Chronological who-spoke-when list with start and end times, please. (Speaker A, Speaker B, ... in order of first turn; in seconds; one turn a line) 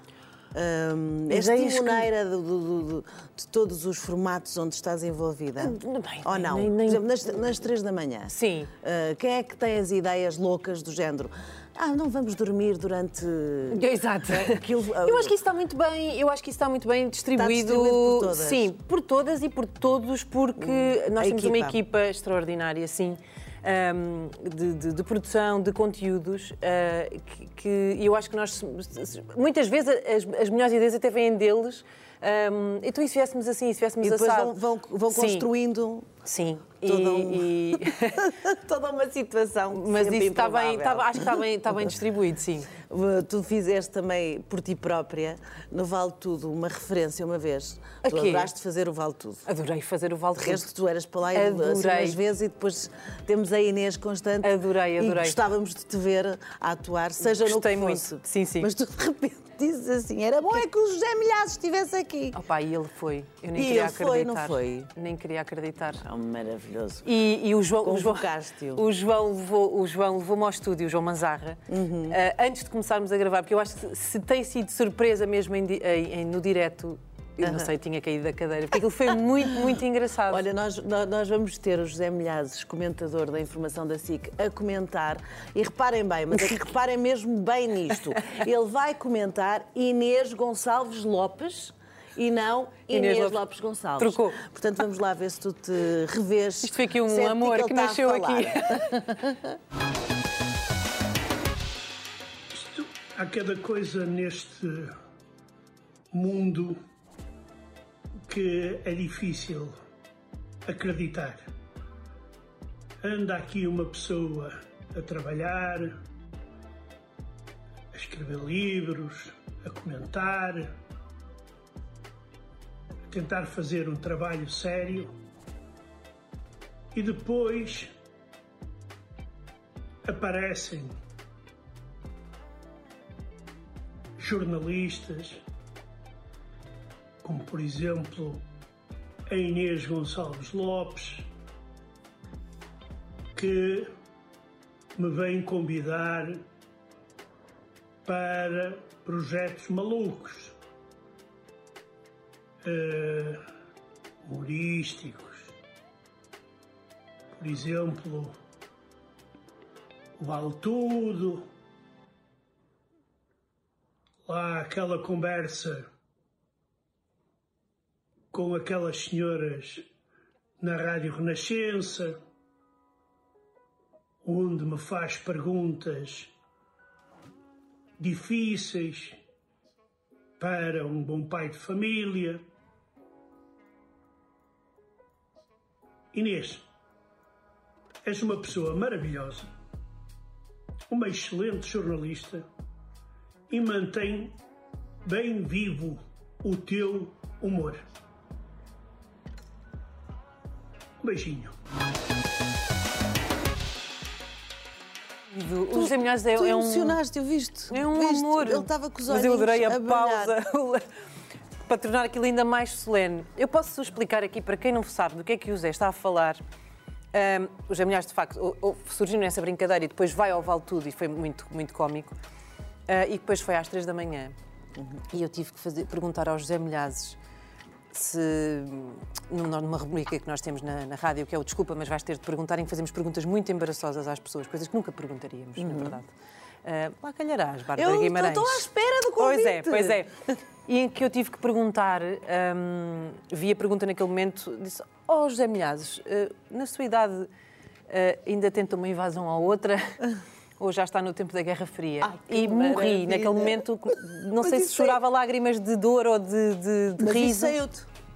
Speaker A: 0.5-15.4
Speaker B: 1.3-2.1
Speaker B: 5.6-7.5
Speaker B: 8.3-8.7
Speaker B: 13.7-34.6
Speaker A: 17.4-18.7
Speaker A: 20.6-21.8
Speaker A: 34.0-36.1
Speaker B: 35.1-35.5
Speaker B: 36.2-38.3
Speaker A: 36.8-41.4
Speaker B: 39.7-42.7
Speaker A: 42.7-49.4
Speaker B: 48.0-48.5
Speaker B: 49.5-50.7
Speaker A: 50.4-62.4
Speaker B: 51.3-52.2
Speaker B: 54.4-55.4
Speaker B: 57.2-58.7
Speaker B: 62.3-66.0
Speaker A: 63.5-64.9
Speaker A: 66.0-67.1
Speaker B: 67.0-80.5
Speaker A: 67.8-68.8
Speaker A: 71.7-72.2
Speaker A: 77.4-77.7
Speaker A: 80.3-99.6
Speaker B: 92.9-93.4
Speaker B: 94.0-94.4
Speaker B: 96.6-99.0
Speaker C: 102.5-105.0
Speaker C: 106.1-106.8
Speaker C: 108.2-109.7
Speaker C: 110.7-111.5
Speaker C: 113.0-116.0
Speaker C: 117.9-120.8
Speaker C: 123.1-125.1
Speaker C: 126.9-127.9
Speaker C: 130.0-130.9
Speaker C: 134.2-135.4
Speaker C: 137.2-138.4
Speaker C: 139.3-141.3
Speaker C: 143.3-143.9
Speaker C: 144.9-146.5
Speaker C: 148.0-150.6
Speaker C: 152.6-153.4
Speaker C: 154.2-155.5
Speaker C: 157.3-158.3
Speaker C: 160.2-161.5
Speaker C: 164.2-165.9
Speaker C: 168.3-169.9
Speaker C: 170.6-172.2
Speaker C: 174.2-176.3
Speaker C: 178.0-179.2
Speaker C: 180.4-182.5
Speaker C: 186.1-186.7
Speaker C: 188.0-189.5
Speaker C: 190.9-192.4
Speaker C: 193.5-194.4
Speaker C: 195.0-197.8
Speaker C: 201.0-201.5
Speaker B: 205.3-207.0
Speaker A: 205.7-210.4
Speaker B: 207.7-210.8
Speaker B: 211.6-216.4
Speaker B: 217.1-222.2
Speaker B: 222.9-224.3
Speaker B: 225.1-227.2
Speaker B: 227.9-236.1
Speaker A: 235.6-236.0
Speaker B: 236.6-238.7
Speaker A: 237.8-240.0
Speaker B: 239.2-240.1
Speaker B: 240.7-247.3
Speaker B: 247.9-257.6
Speaker A: 252.0-255.0
Speaker A: 257.0-257.9